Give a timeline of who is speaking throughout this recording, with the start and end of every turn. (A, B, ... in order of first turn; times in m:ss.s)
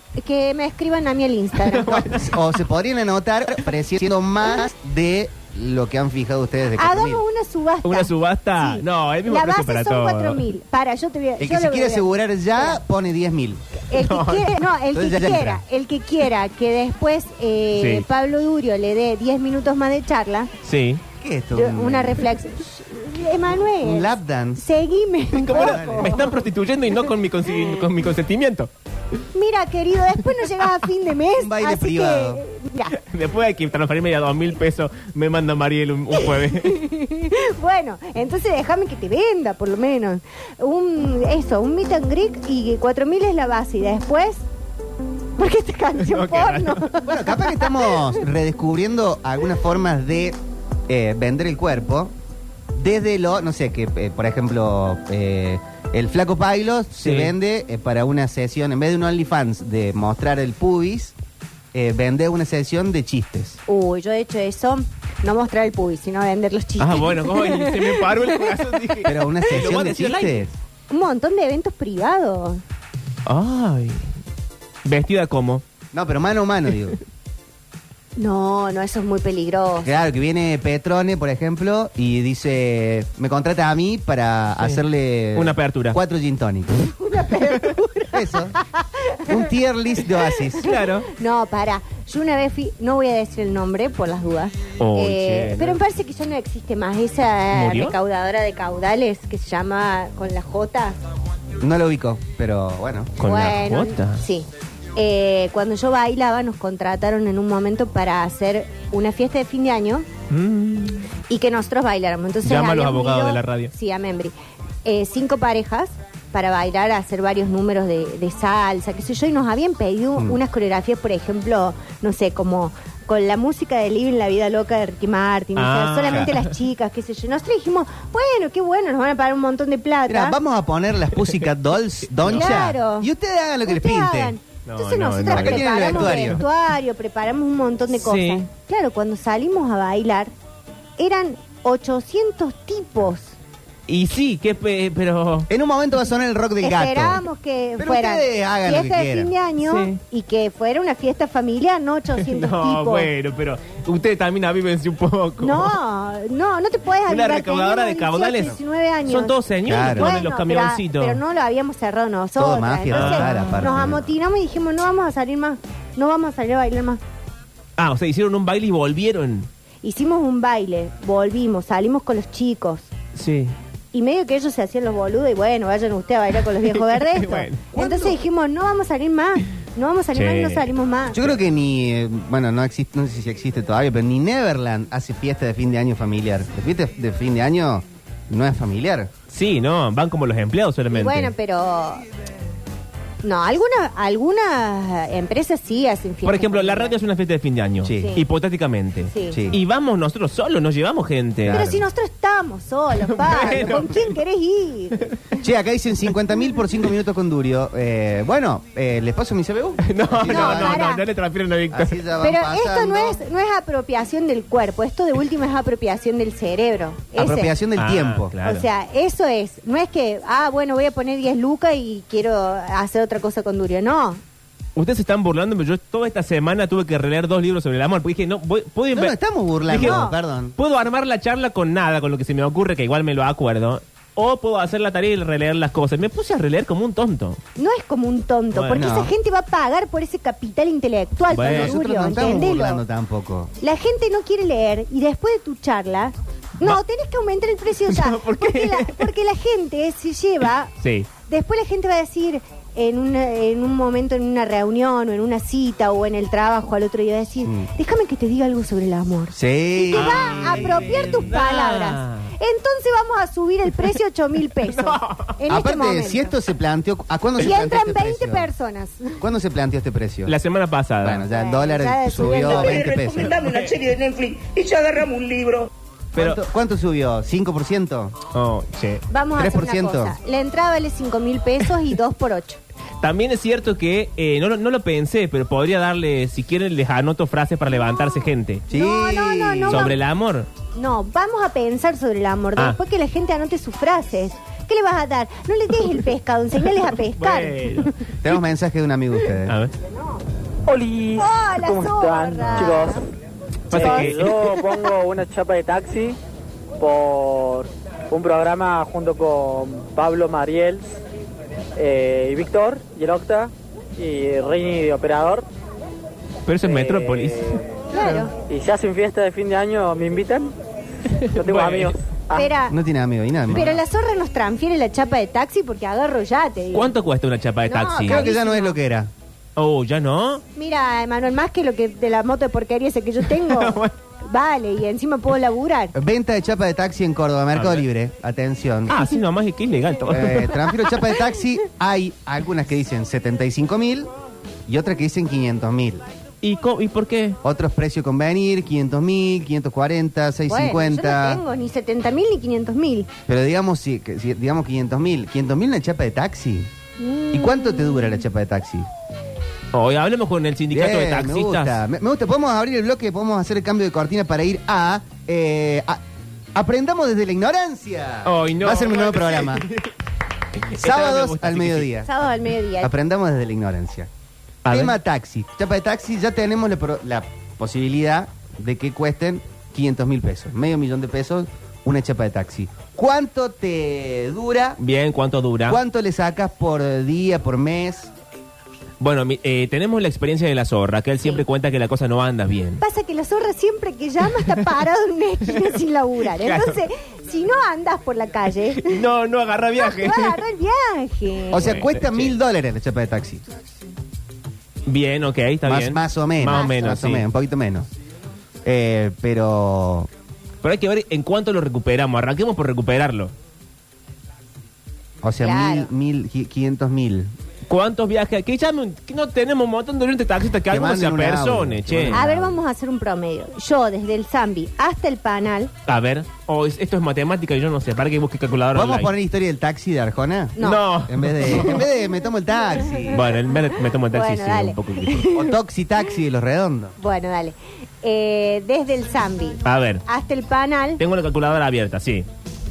0:00.2-0:02.2 A
0:01.7-0:02.3 B
0:01.9-0:07.2 C
0:06.8-0:12.8 A
0:07.8-0:10.4 B
0:11.4-0:13.6 C
0:13.9-0:20.5 A
0:14.0-0:14.6 B
0:14.9-0:15.6 C
0:17.8-0:18.0 B
0:20.6-0:21.0 B
0:21.2-0:22.2 C
0:21.5-0:26.4 A
0:23.8-0:24.6 C
0:25.4-0:28.7 B
0:25.5-0:26.2 C
0:29.4-0:32.9 A
0:31.4-0:32.4 C
0:32.9-0:36.8 B
0:36.2-0:44.4 A
0:45.4-0:48.2 A
0:46.0-0:46.8 B
0:47.0-0:50.4 C
0:50.9-0:52.1 C
0:52.7-1:01.2 C
0:57.0-0:57.3 B
1:01.7-1:03.6 C
1:03.7-1:08.6 A
1:06.8-1:10.5 B
1:09.0-1:10.5 C
1:10.9-1:12.6 A
1:13.3-1:14.1 B
1:14.8-1:15.6 B
1:15.9-1:17.0 C
1:18.2-1:19.9 A
1:19.8-1:26.9 C
1:25.4-1:26.0 B
1:27.0-1:29.4 A
1:28.1-1:28.6 C
1:29.3-1:30.7 C
1:30.2-1:41.0 A
1:30.6-1:31.1 B
1:34.8-1:35.8 B
1:37.5-1:37.9 B
1:41.6-1:43.2 C
1:43.2-1:44.2 B
1:43.2-1:50.1 A
1:50.3-1:51.1 B
1:51.3-1:54.3 A
1:52.4-1:53.7 B
1:54.8-2:10.4 A
2:05.6-2:06.5 B
2:10.1-2:14.3 C
2:12.2-2:12.7 B
2:12.3-2:13.1 A
2:13.7-2:20.3 A
2:14.7-2:16.4 B
2:15.2-2:16.4 C
2:18.0-2:18.5 B
2:21.0-2:23.4 A
2:23.9-2:25.5 B
2:25.5-2:27.2 C
2:26.6-2:33.1 A
2:27.8-2:29.3 C
2:29.7-2:30.0 B
2:32.2-2:35.8 B
2:35.4-2:47.0 A
2:37.1-2:38.6 B
2:39.1-2:41.2 B
2:39.6-2:40.2 C
2:42.4-2:44.1 C
2:42.9-2:43.7 B
2:47.8-2:49.5 B
2:49.8-2:52.9 A
2:53.2-2:53.6 B
2:53.9-3:01.3 A
2:56.8-2:57.6 B
2:57.7-2:58.2 C
3:00.2-3:00.6 B
3:01.1-3:09.1 C
3:09.3-3:11.3 B
3:10.9-3:12.0 A
3:13.2-3:17.0 A
3:16.2-3:21.7 B
3:17.8-3:18.2 C
3:18.0-3:18.2 A
3:19.1-3:19.4 A
3:19.3-3:19.6 C
3:21.4-3:21.8 C
3:21.5-3:25.4 A
3:23.1-3:24.0 B
3:25.4-3:30.9 C
3:29.8-3:32.0 B
3:30.3-3:31.0 A
3:31.7-3:33.2 C
3:32.2-3:37.5 A
3:37.2-3:38.3 C
3:37.8-3:38.7 B
3:38.4-3:44.2 A
3:44.8-3:50.0 B
3:48.9-3:50.6 C
3:49.7-3:50.2 A
3:50.6-3:57.4 B
3:57.6-4:02.8 A
3:58.5-3:58.8 B
3:58.7-3:59.1 C
4:01.3-4:01.7 B
4:01.3-4:03.5 C
4:03.6-4:10.7 A
4:07.9-4:09.0 B
4:10.8-4:11.1 B
4:11.2-4:26.3 A
4:19.3-4:21.2 C
4:19.9-4:22.3 B
4:24.7-4:25.3 B
4:25.5-4:28.5 C
4:27.4-4:29.2 A
4:29.2-4:30.3 C
4:30.3-4:31.2 B
4:31.0-4:33.3 C
4:31.3-4:32.9 A
4:32.5-4:35.7 D
4:33.4-4:33.7 B
4:36.1-4:38.2 C
4:38.3-4:39.0 B
4:39.1-4:42.6 A
4:39.4-4:40.2 C
4:43.0-4:48.6 B
4:48.7-4:49.9 C
4:48.7-4:50.0 A
4:49.7-4:50.5 B
4:50.8-4:57.9 A
4:57.1-4:57.9 B
4:58.2-4:59.5 C
4:59.4-4:59.7 B
5:00.7-5:03.0 E
5:01.2-5:03.1 A
5:03.7-5:04.4 B
5:03.7-5:06.2 E
5:03.7-5:04.1 A
5:06.8-5:11.0 E
5:11.8-5:15.4 E
5:16.5-5:17.6 B
5:16.7-5:17.8 E
5:17.9-5:18.3 A
5:18.5-5:20.5 E
5:21.1-5:22.0 B
5:21.4-5:22.5 E
5:22.3-5:22.8 A
5:22.7-5:23.8 C
5:23.5-5:26.9 A
5:26.7-5:28.3 B
5:27.7-5:28.8 A
5:28.1-5:29.1 C
5:29.6-5:30.4 B
5:30.6-5:35.9 A
5:33.4-5:33.9 B
5:35.9-5:39.0 C
5:37.5-5:37.8 B
5:38.9-5:40.7 B
5:40.1-5:44.1 C
5:44.7-5:46.0 C
5:46.4-5:47.4 B
5:47.4-5:51.4 C
5:50.5-5:53.1 A
5:53.3-5:56.7 C
5:57.0-5:58.2 A
5:57.3-5:58.9 C
5:59.7-6:01.8 B
6:00.7-6:06.0 C
6:06.6-6:09.7 C
6:08.2-6:09.9 B
6:10.6-6:11.9 B
6:10.8-6:12.1 C
6:12.0-6:12.9 A
6:12.8-6:14.1 C
6:14.6-6:15.0 B
6:14.7-6:24.8 C
6:24.8-6:25.8 B
6:25.7-6:28.1 C
6:29.0-6:32.8 B
6:32.8-6:39.0 A
6:36.2-6:36.8 B
6:38.8-6:40.4 B
6:39.8-6:41.8 A
6:41.5-6:43.4 C
6:41.6-6:42.4 B
6:44.9-6:47.2 B
6:45.6-6:47.9 C
6:46.5-6:46.9 A
6:48.6-6:50.1 C
6:50.6-6:53.3 B
6:55.2-6:57.3 C
6:55.4-6:55.9 A
6:57.7-7:02.2 B
7:00.7-7:02.6 C
7:02.1-7:05.7 A
7:05.9-7:09.1 B
7:08.7-7:13.2 C
7:10.6-7:10.9 A
7:10.6-7:11.8 B
7:11.5-7:11.8 A
7:13.1-7:15.2 B
7:13.5-7:15.5 A
7:15.3-7:16.9 C
7:17.0-7:21.0 A
7:19.6-7:20.0 B
7:21.0-7:22.3 B